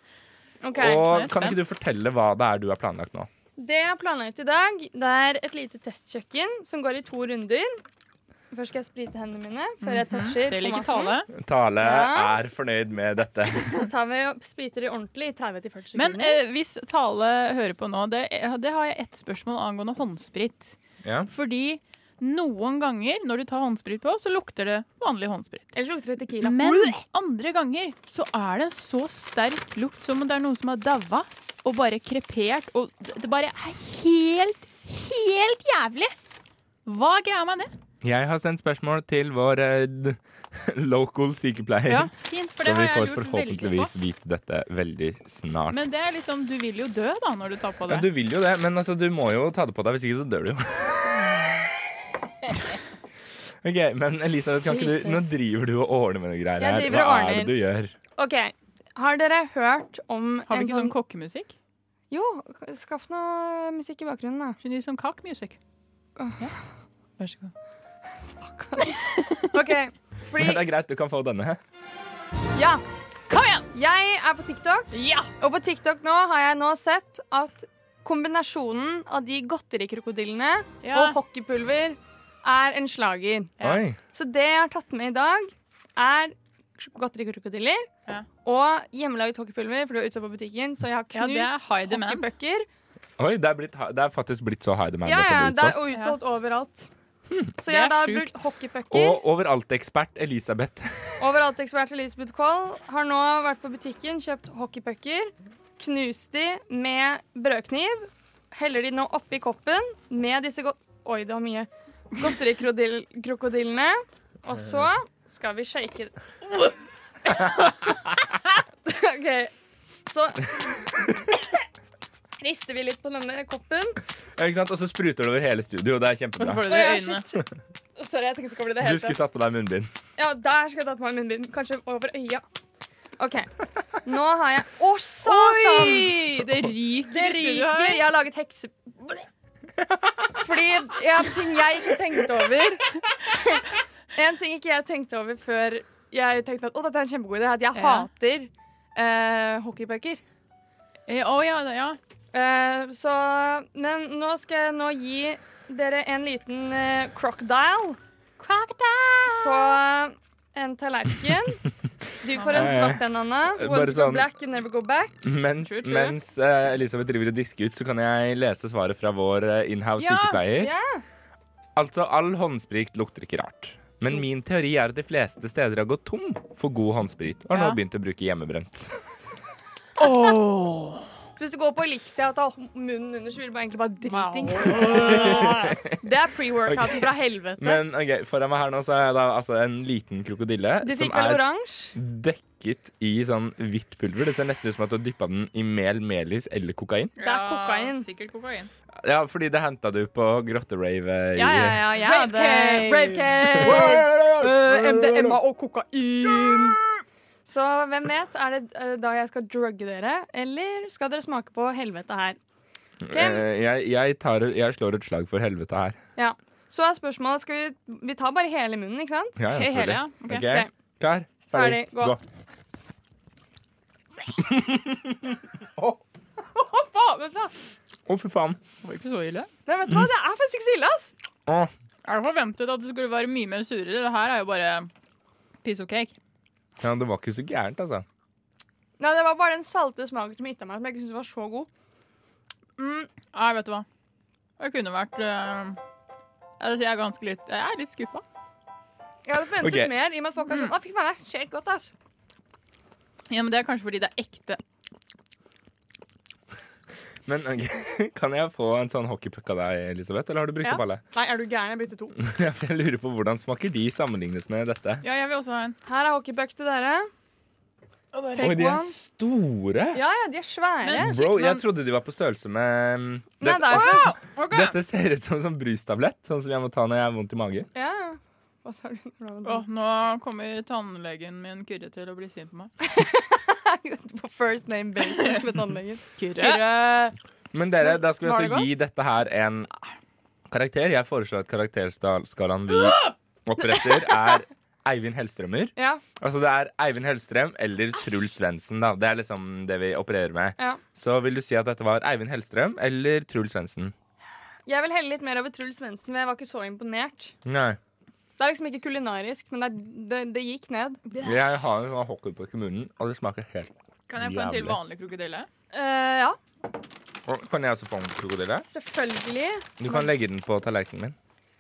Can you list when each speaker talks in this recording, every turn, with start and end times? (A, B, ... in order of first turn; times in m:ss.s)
0:00.6-0:01.1 A
0:00.8-0:03.3 B
0:01.0-0:01.6 C
0:03.6-0:07.8 A
0:08.5-0:11.2 A
0:09.8-0:11.3 C
0:11.3-0:13.7 B
0:11.8-0:12.4 A
0:13.7-0:16.4 A
0:16.0-0:25.7 C
0:21.0-0:21.3 B
0:25.8-0:27.0 A
0:26.4-0:36.1 C
0:36.9-0:37.7 C
0:38.0-0:45.8 B
0:41.9-0:43.9 C
0:45.7-0:48.1 C
0:47.9-0:51.6 B
0:53.6-0:58.0 B
0:54.6-0:55.3 A
0:56.6-0:57.6 A
0:58.2-1:01.0 A
1:00.5-1:01.6 C
1:02.1-1:04.6 A
1:04.6-1:05.6 C
1:06.2-1:06.5 A
1:07.2-1:07.5 C
1:08.4-1:10.6 A
1:10.4-1:11.6 B
1:12.6-1:12.8 A
1:13.3-1:13.7 C
1:13.7-1:23.5 A
1:14.9-1:15.3 C
1:20.8-1:21.2 C
1:23.6-1:23.8 C
1:23.6-1:24.0 B
1:24.1-1:27.9 A
1:28.4-1:32.7 A
1:31.1-1:32.3 C
1:33.2-1:35.8 B
1:35.0-1:36.9 A
1:37.6-1:39.2 A
1:37.6-1:38.4 C
1:38.9-1:41.2 B
1:41.2-1:56.2 A
1:57.3-1:57.5 A
1:58.8-1:59.5 A
2:00.1-2:00.8 A
2:02.4-2:04.0 A
2:04.4-2:06.7 B
2:06.4-2:07.2 C
2:06.7-2:07.4 A
2:08.0-2:09.3 A
2:08.8-2:09.9 B
2:10.2-2:12.4 A
2:13.2-2:13.5 A
2:14.0-2:16.3 A
2:15.2-2:18.1 C
2:17.1-2:19.3 A
2:20.4-2:30.2 A
2:27.8-2:28.1 C
2:31.1-2:32.0 C
2:32.3-2:38.0 A
2:38.4-2:39.7 C
2:39.4-2:41.6 A
2:42.2-2:45.2 A
2:42.4-2:42.8 C
2:42.5-2:44.3 B
2:45.2-2:50.7 B
2:45.6-2:46.2 C
2:50.0-2:50.4 C
2:50.5-2:51.0 A
2:51.8-2:58.9 B
2:57.5-2:57.8 C
3:00.0-3:01.1 C
3:01.4-3:07.8 A
3:04.1-3:05.6 C
3:04.7-3:05.9 B
3:06.7-3:07.1 B
3:07.6-3:11.4 B
3:10.8-3:12.0 A
3:12.0-3:17.1 B
3:17.2-3:18.7 C
3:17.2-3:18.1 A
3:19.0-3:22.0 B
3:21.4-3:26.8 A
3:22.0-3:24.1 C
3:23.5-3:25.4 B
3:27.5-3:32.4 A
3:33.0-3:36.0 B
3:33.1-3:33.4 A
3:36.2-3:39.4 A
3:39.4-3:42.2 B
3:39.5-3:40.5 C
3:40.3-3:40.7 A
3:41.5-3:42.2 A
3:44.4-3:45.2 B
3:46.6-3:47.5 A
3:48.1-3:48.6 B
3:48.8-3:49.5 C
3:49.7-3:51.1 A
3:51.5-3:51.7 B
3:52.0-3:54.9 C
3:55.6-3:56.2 C
3:56.8-3:58.1 B
3:59.0-4:01.7 A
4:02.8-4:03.9 C
4:04.6-4:05.8 C
4:06.6-4:08.2 C
4:09.3-4:11.9 A
4:09.6-4:09.9 B
4:13.3-4:14.6 C
4:17.2-4:21.0 B
4:20.6-4:22.2 A
4:22.2-4:25.0 B
4:25.0-4:25.8 C
4:25.9-4:27.1 A
4:28.1-4:28.7 C
4:28.4-4:29.0 A
4:28.4-4:30.0 B
4:29.9-4:31.1 A
4:30.8-4:31.6 C
4:31.0-4:37.7 B
4:33.4-4:34.1 A
4:33.7-4:34.8 C
4:37.8-4:39.6 A
4:39.4-4:42.7 C
4:42.8-4:47.2 A
4:46.2-4:46.7 C
4:47.5-4:49.7 B
4:47.8-4:48.7 A
4:50.5-5:04.0 B
4:55.8-4:56.0 A
5:04.7-5:07.4 A
5:07.4-5:07.8 B
5:08.4-5:11.0 A
5:11.1-5:11.4 C
5:11.2-5:14.8 B
5:14.1-5:15.5 C
5:15.7-5:16.4 A
5:17.3-5:18.7 B
5:18.6-5:20.1 A
5:19.8-5:21.2 B